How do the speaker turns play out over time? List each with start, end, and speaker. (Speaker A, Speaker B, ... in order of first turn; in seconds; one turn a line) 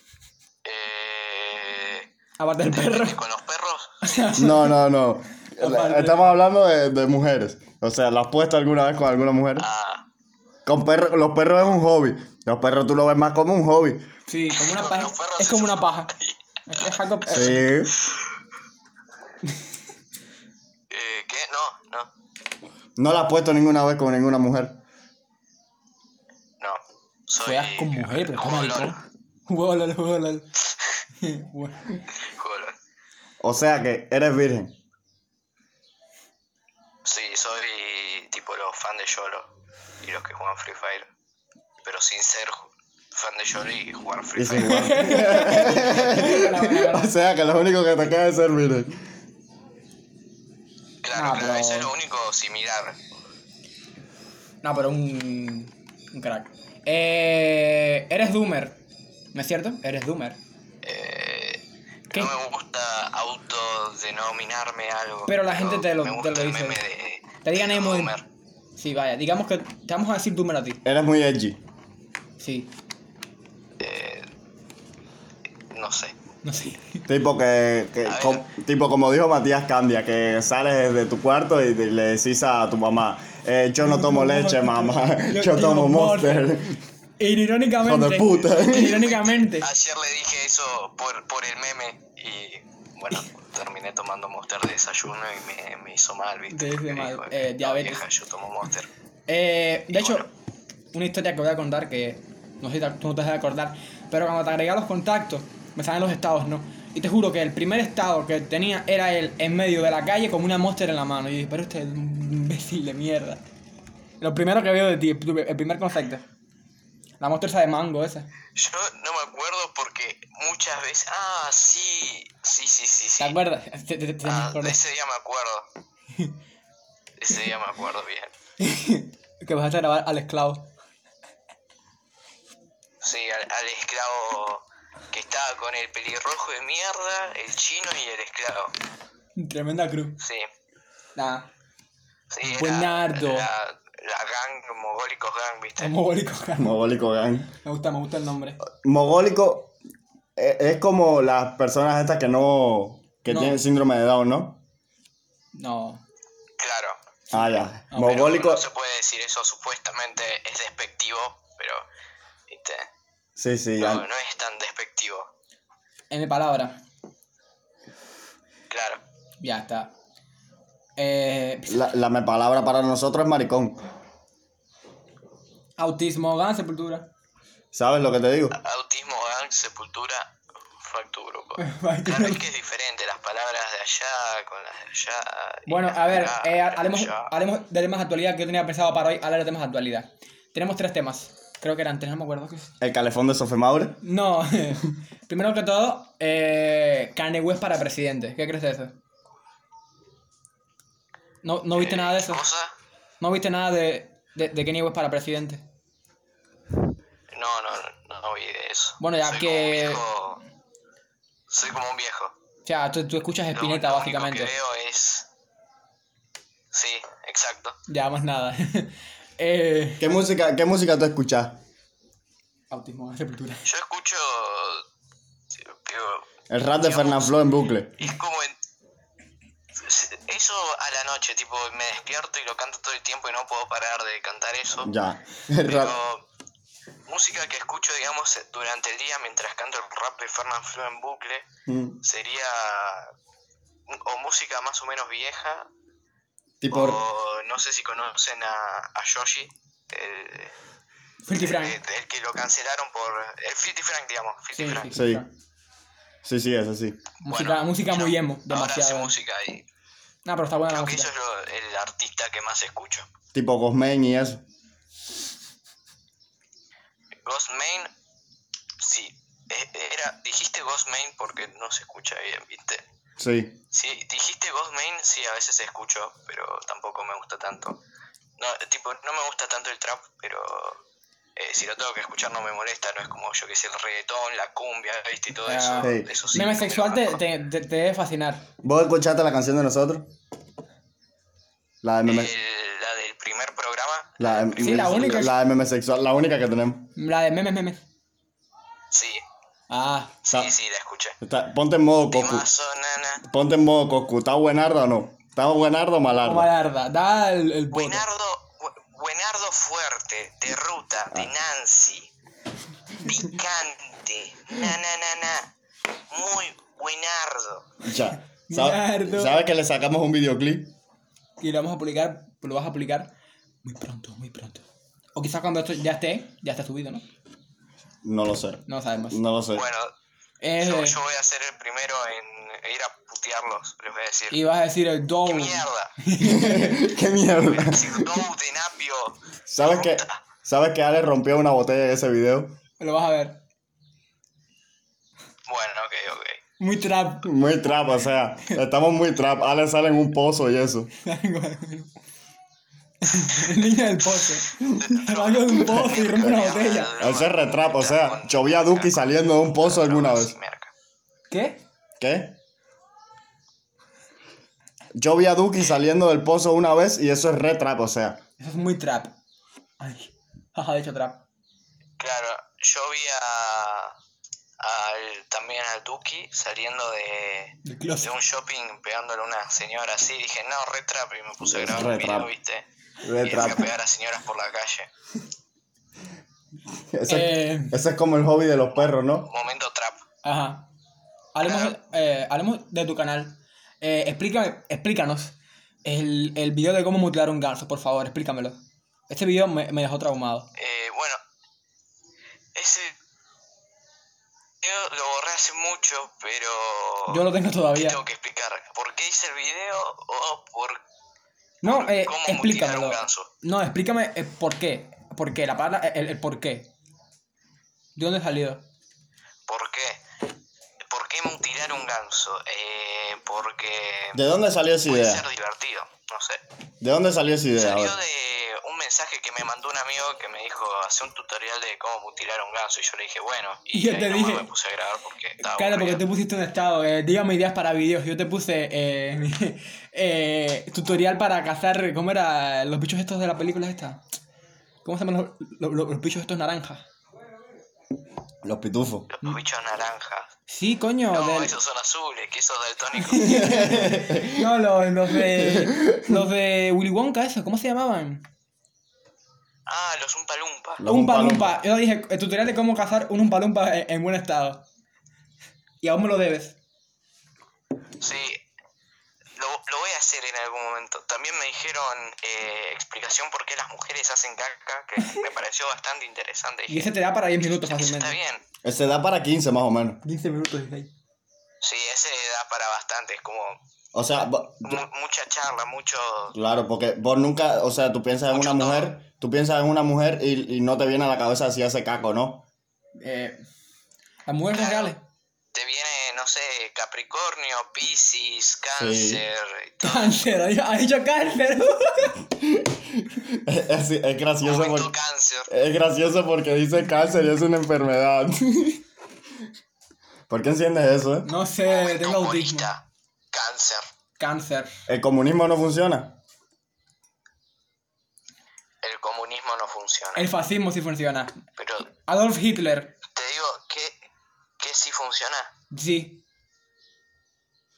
Speaker A: 0.6-2.1
Speaker B: 2.4-3.2
Speaker A: 2.6-4.4
Speaker B: 4.0-4.8
Speaker C: 4.4-9.7
Speaker B: 5.6-6.4
Speaker A: 9.6-10.1
Speaker C: 10.7-14.0
Speaker B: 14.3-16.1
Speaker A: 14.5-17.0
Speaker B: 16.7-17.7
Speaker C: 17.3-17.9
Speaker A: 20.9-22.1
Speaker C: 23.0-24.8
Speaker A: 26.6-29.0
Speaker B: 27.4-30.5
Speaker B: 31.2-32.0
Speaker A: 32.2-32.8
Speaker C: 33.4-34.8
Speaker A: 37.0-39.5
Speaker A: 40.0-41.1
Speaker A: 41.8-45.2
Speaker C: 44.4-49.0
Speaker B: 44.6-47.1
Speaker A: 51.0-53.0
Speaker B: 51.1-51.9
Speaker B: 54.6-58.8
Speaker B: 59.3-60.4
Speaker A: 60.8-68.2
Speaker B: 65.3-66.8
Speaker B: 67.4-68.1
Speaker B: 68.8-70.8
Speaker C: 70.8-71.6
Speaker B: 72.4-72.7
Speaker A: 73.8-74.3
Speaker A: 75.7-76.2
Speaker B: 76.4-77.0
Speaker C: 77.1-86.8
Speaker A: 78.1-78.5
Speaker B: 83.8-86.6
Speaker B: 87.2-89.7
Speaker C: 87.8-89.0
Speaker A: 88.7-98.9
Speaker B: 96.5-98.0
Speaker B: 99.3-100.3
Speaker A: 99.9-100.3
Speaker B: 100.9-113.4
Speaker B: 114.2-116.2
Speaker B: 117.2-118.3
Speaker A: 118.6-123.4
Speaker B: 123.2-124.8
Speaker A: 124.2-125.7
Speaker A: 127.2-128.3
Speaker B: 128.6-130.7
Speaker A: 133.0-138.7
Speaker B: 139.4-140.2
Speaker A: 140.2-140.5
Speaker B: 141.2-141.5
Speaker A: 142.3-145.9
Speaker B: 142.4-143.5
Speaker B: 145.8-146.8
Speaker C: 146.6-147.5
Speaker B: 147.6-148.6
Speaker C: 148.8-149.7
Speaker C: 150.4-154.6
Speaker B: 153.3-153.6
Speaker B: 155.5-156.0
Speaker A: 156.6-157.0
Speaker C: 157.3-158.6
Speaker B: 157.9-158.2
Speaker A: 157.9-161.9
Speaker A: 162.5-162.9
Speaker C: 163.4-164.1
Speaker A: 163.8-165.3
Speaker B: 166.1-166.8
Speaker A: 168.7-169.0
Speaker B: 169.4-169.9
Speaker B: 171.0-171.9
Speaker C: 171.7-173.8
Speaker B: 175.8-177.1
Speaker C: 177.7-178.6
Speaker A: 178.6-187.3
Speaker B: 181.6-182.4
Speaker B: 185.7-192.7
Speaker C: 192.8-194.0
Speaker B: 194.0-198.9
Speaker B: 201.4-202.4
Speaker A: 201.8-202.7
Speaker B: 203.2-205.6
Speaker A: 207.3-210.4
Speaker B: 209.0-210.0
Speaker A: 211.5-212.3
Speaker B: 212.6-214.5
Speaker A: 213.5-215.3
Speaker A: 216.7-217.8
Speaker B: 217.9-220.1
Speaker C: 220.0-221.6
Speaker B: 222.7-223.7
Speaker A: 223.6-224.8
Speaker A: 225.7-226.3
Speaker C: 226.5-228.0
Speaker A: 226.8-227.4
Speaker A: 228.0-228.6
Speaker A: 229.8-234.9
Speaker C: 234.8-236.0
Speaker A: 235.6-236.2
Speaker A: 237.1-241.5
Speaker C: 241.7-242.0
Speaker A: 242.0-243.1
Speaker A: 243.9-245.7
Speaker C: 246.6-247.0
Speaker A: 246.7-250.6
Speaker B: 251.2-251.8
Speaker A: 251.3-255.0
Speaker B: 254.5-255.3
Speaker C: 254.9-255.2
Speaker C: 256.2-257.0
Speaker B: 257.2-259.1
Speaker A: 257.3-259.6
Speaker B: 260.2-261.1
Speaker A: 260.7-263.1
Speaker C: 263.3-264.4
Speaker A: 267.2-267.9
Speaker A: 268.8-272.8
Speaker C: 273.2-273.6
Speaker A: 273.7-277.8
Speaker A: 278.4-280.8
Speaker A: 281.4-287.2
Speaker B: 285.4-288.4
Speaker C: 285.8-286.1
Speaker C: 288.6-290.1
Speaker C: 291.8-292.3
Speaker A: 292.1-295.3
Speaker C: 294.2-296.9
Speaker B: 294.6-295.3
Speaker B: 297.0-297.8
Speaker A: 298.9-299.2
Speaker B: 299.7-300.2
Speaker A: 300.2-301.2
Speaker C: 301.2-302.5
Speaker A: 302.1-303.2
Speaker C: 303.2-306.5
Speaker B: 306.2-308.0
Speaker A: 307.7-312.1
Speaker A: 313.0-315.5
Speaker A: 316.1-317.7
Speaker C: 317.8-320.7
Speaker B: 318.5-319.4
Speaker B: 321.4-323.1
Speaker B: 323.6-324.6
Speaker B: 325.1-327.1
Speaker C: 328.0-329.6
Speaker B: 328.7-329.2
Speaker A: 329.5-329.9
Speaker B: 330.4-331.0
Speaker A: 330.6-334.4
Speaker B: 334.3-336.9
Speaker A: 335.2-335.9
Speaker C: 336.2-338.2
Speaker A: 337.4-340.2
Speaker C: 339.5-342.6
Speaker B: 342.8-343.4
Speaker A: 345.5-346.4
Speaker B: 346.6-347.3
Speaker C: 347.2-350.9
Speaker B: 351.0-351.9
Speaker B: 353.0-356.9
Speaker A: 353.3-360.7
Speaker C: 357.0-360.4
Speaker B: 361.3-361.6
Speaker C: 362.0-362.4
Speaker C: 364.9-368.2
Speaker B: 368.4-369.1
Speaker B: 369.8-371.2
Speaker A: 372.0-373.9
Speaker A: 374.6-382.6
Speaker B: 377.6-378.1
Speaker C: 381.5-382.3
Speaker C: 383.0-383.7
Speaker A: 383.2-384.9
Speaker C: 386.9-389.3
Speaker B: 387.1-387.8
Speaker A: 389.2-390.0
Speaker B: 390.2-390.7
Speaker B: 391.4-400.5
Speaker A: 391.4-391.8
Speaker A: 400.6-401.2
Speaker A: 402.6-402.9
Speaker A: 404.6-410.8
Speaker B: 407.1-408.0
Speaker A: 411.6-413.3
Speaker B: 411.6-416.7
Speaker B: 418.0-418.6
Speaker A: 419.5-420.0
Speaker A: 420.9-424.2
Speaker C: 424.1-425.2
Speaker A: 424.9-426.4
Speaker C: 426.8-428.0
Speaker A: 427.6-436.0
Speaker B: 433.7-434.5
Speaker B: 435.4-444.0
Speaker B: 444.8-446.8
Speaker C: 448.4-449.1
Speaker A: 449.1-450.3
Speaker B: 450.5-451.6
Speaker A: 451.1-453.7
Speaker B: 453.0-458.2
Speaker C: 453.3-454.5
Speaker C: 455.3-456.2
Speaker A: 459.7-460.8
Speaker C: 460.8-461.6
Speaker B: 460.8-464.6
Speaker B: 465.8-466.6
Speaker A: 468.0-468.4
Speaker A: 469.4-476.9
Speaker B: 476.7-478.1
Speaker A: 477.5-478.4
Speaker C: 478.6-480.0
Speaker B: 480.0-480.9
Speaker A: 481.6-483.6
Speaker C: 483.9-484.8
Speaker A: 484.6-486.4
Speaker C: 486.3-492.4
Speaker A: 488.3-488.9
Speaker B: 493.0-493.4
Speaker B: 494.3-495.0
Speaker A: 494.5-494.9
Speaker A: 495.5-500.2
Speaker C: 498.8-499.2
Speaker B: 499.8-502.2
Speaker C: 502.4-504.9
Speaker A: 504.4-505.5
Speaker C: 505.5-508.8
Speaker C: 510.3-511.3
Speaker B: 511.2-512.7
Speaker A: 511.6-513.9
Speaker B: 514.2-514.7
Speaker C: 514.9-516.2
Speaker A: 518.8-520.3
Speaker B: 520.1-521.4
Speaker A: 521.6-521.9
Speaker B: 522.0-522.9
Speaker A: 523.1-524.0
Speaker A: 524.6-525.5
Speaker B: 525.7-526.2